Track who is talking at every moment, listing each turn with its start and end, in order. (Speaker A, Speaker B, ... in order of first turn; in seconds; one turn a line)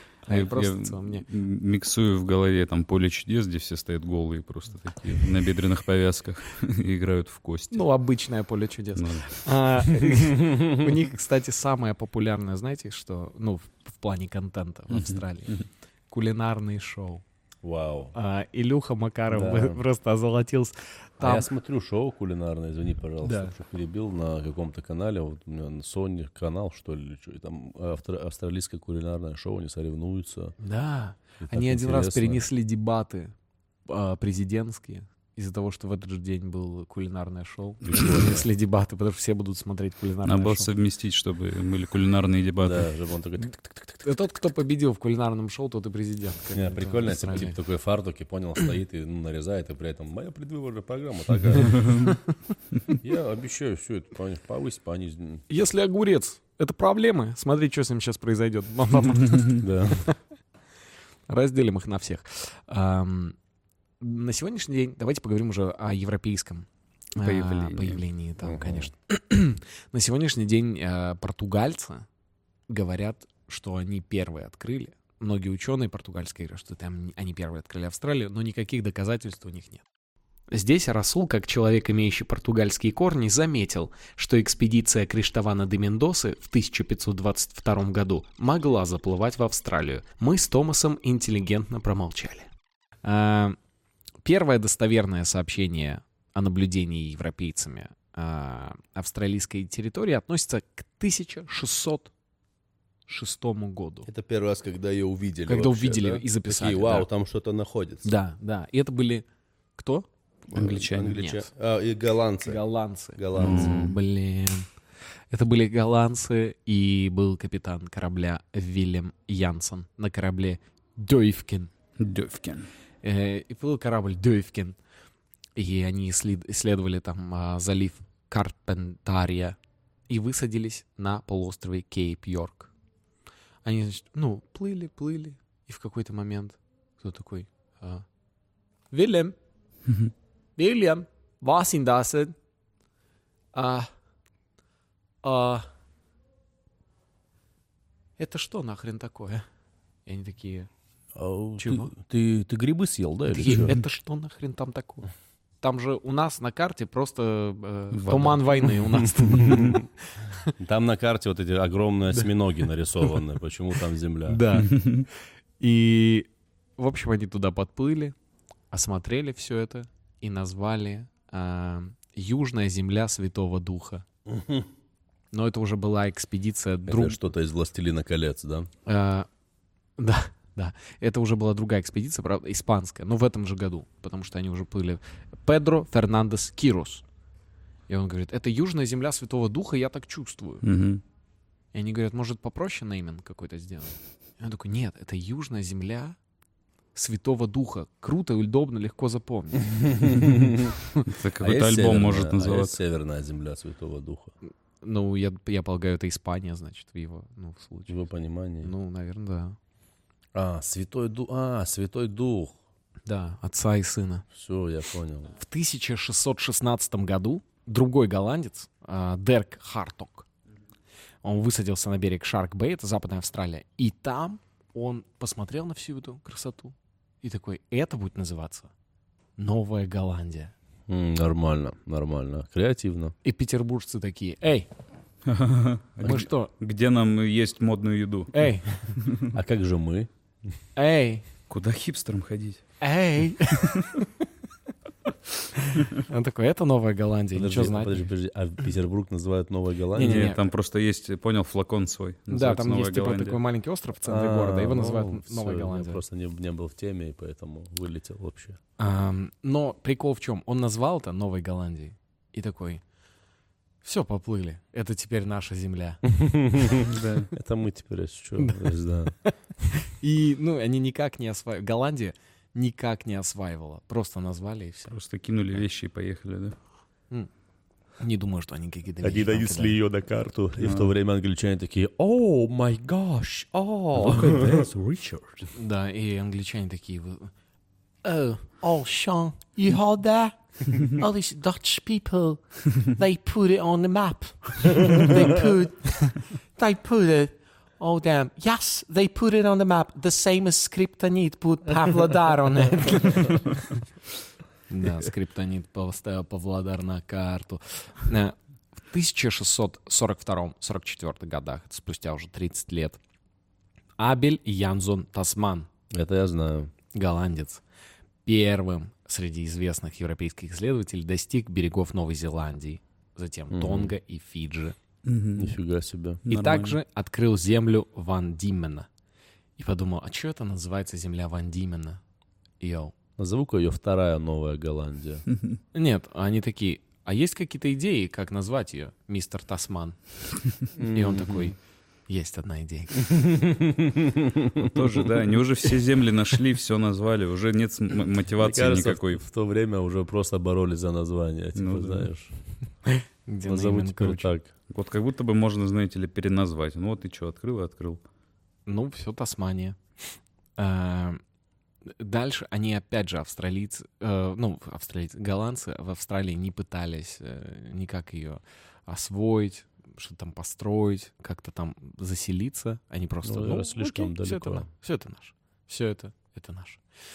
Speaker A: 0.2-1.2
Speaker B: 0.3-7.9
Speaker A: 7.7-17.2
Speaker B: 8.9-9.6
Speaker C: 10.3-10.9
Speaker B: 14.9-15.2
Speaker C: 17.6-18.1
Speaker A: 18.1-21.5
Speaker C: 19.3-19.8
Speaker C: 21.2-30.6
Speaker A: 23.2-23.5
Speaker A: 30.6-33.3
Speaker C: 31.4-32.4
Speaker A: 33.9-40.7
Speaker C: 37.8-38.5
Speaker B: 40.2-42.9
Speaker C: 42.6-44.0
Speaker A: 44.0-47.6
Speaker C: 46.5-52.1
Speaker A: 51.6-52.2
Speaker B: 51.8-52.1
Speaker C: 53.0-55.5
Speaker A: 55.5-60.2
Speaker C: 59.6-60.1
Speaker A: 61.3-63.4
Speaker A: 64.0-72.0
Speaker B: 67.2-68.0
Speaker C: 68.4-68.9
Speaker A: 72.7-79.8
Speaker A: 80.5-92.5
Speaker A: 93.0-93.6
Speaker A: 94.2-102.1
Speaker A: 103.1-104.1
Speaker C: 104.0-108.1
Speaker A: 105.5-107.1
Speaker A: 108.0-109.2
Speaker A: 109.8-110.1
Speaker C: 110.5-112.6
Speaker B: 110.5-111.2
Speaker A: 111.1-111.5
Speaker A: 112.4-114.7
Speaker C: 113.2-113.9
Speaker B: 113.3-114.0
Speaker A: 115.3-121.7
Speaker B: 122.0-122.7
Speaker A: 123.0-124.8
Speaker A: 125.5-129.6
Speaker A: 130.1-132.7
Speaker A: 133.6-138.0
Speaker A: 138.9-139.4
Speaker A: 140.6-142.3
Speaker A: 143.5-143.9
Speaker A: 145.2-145.7
Speaker A: 148.2-149.4
Speaker A: 150.1-150.7
Speaker C: 151.1-153.7
Speaker A: 151.6-151.9
Speaker A: 153.3-155.1
Speaker A: 155.6-160.5
Speaker B: 157.9-158.7
Speaker C: 159.1-159.8
Speaker C: 160.6-164.4
Speaker A: 164.2-164.9
Speaker B: 164.6-165.1
Speaker A: 165.6-168.1
Speaker A: 168.7-174.0
Speaker C: 174.3-174.7
Speaker A: 175.3-177.2
Speaker C: 176.8-178.7
Speaker A: 178.8-179.3
Speaker A: 180.0-187.0
Speaker A: 187.9-190.6
Speaker B: 190.6-191.0
Speaker A: 191.7-196.2
Speaker A: 196.9-199.7
Speaker C: 199.7-200.7
Speaker B: 201.1-202.8
Speaker C: 201.4-204.3
Speaker A: 204.8-208.0
Speaker C: 207.9-208.7
Speaker A: 208.6-209.6
Speaker C: 210.3-212.6
Speaker A: 213.1-214.2
Speaker C: 214.3-215.3
Speaker A: 215.3-220.3
Speaker A: 221.2-228.7
Speaker A: 229.4-230.5
Speaker C: 230.9-233.1
Speaker A: 233.2-234.7
Speaker B: 235.2-238.5
Speaker A: 236.0-236.5
Speaker A: 238.3-239.0
Speaker B: 239.0-239.3
Speaker C: 239.3-240.5
Speaker A: 240.8-241.2
Speaker B: 241.5-242.6
Speaker A: 242.8-244.1
Speaker B: 243.6-243.9
Speaker A: 245.5-248.1
Speaker C: 247.3-250.3
Speaker A: 249.9-250.5
Speaker B: 250.0-253.4
Speaker A: 252.3-256.0
Speaker C: 254.0-258.6
Speaker A: 258.8-262.8
Speaker A: 263.8-266.0
Speaker C: 266.1-269.1
Speaker B: 266.9-267.3
Speaker A: 268.4-275.0
Speaker B: 274.9-276.6
Speaker A: 278.0-279.8
Speaker C: 279.0-284.7
Speaker B: 280.6-280.9
Speaker B: 283.9-285.5
Speaker A: 285.5-287.3
Speaker A: 288.0-303.8
Speaker A: 304.7-308.3
Speaker A: 308.9-313.0
Speaker A: 314.0-315.7
Speaker C: 315.9-316.7
Speaker A: 316.9-317.6
Speaker A: 318.2-324.8
Speaker C: 323.5-323.9
Speaker B: 325.0-325.6
Speaker C: 325.4-326.2
Speaker B: 326.3-326.8
Speaker A: 326.3-328.9
Speaker A: 329.6-332.0
Speaker A: 332.6-332.9
Speaker C: 333.2-335.2
Speaker A: 335.7-340.0
Speaker A: 340.6-341.6
Speaker C: 340.7-341.5
Speaker A: 342.1-343.1
Speaker C: 343.0-345.1
Speaker B: 344.6-349.2
Speaker C: 348.4-352.3
Speaker B: 351.5-352.1
Speaker A: 352.9-354.3
Speaker C: 353.4-354.5
Speaker B: 354.7-358.0
Speaker A: 358.6-361.2
Speaker A: 361.8-376.8
Speaker C: 373.2-374.7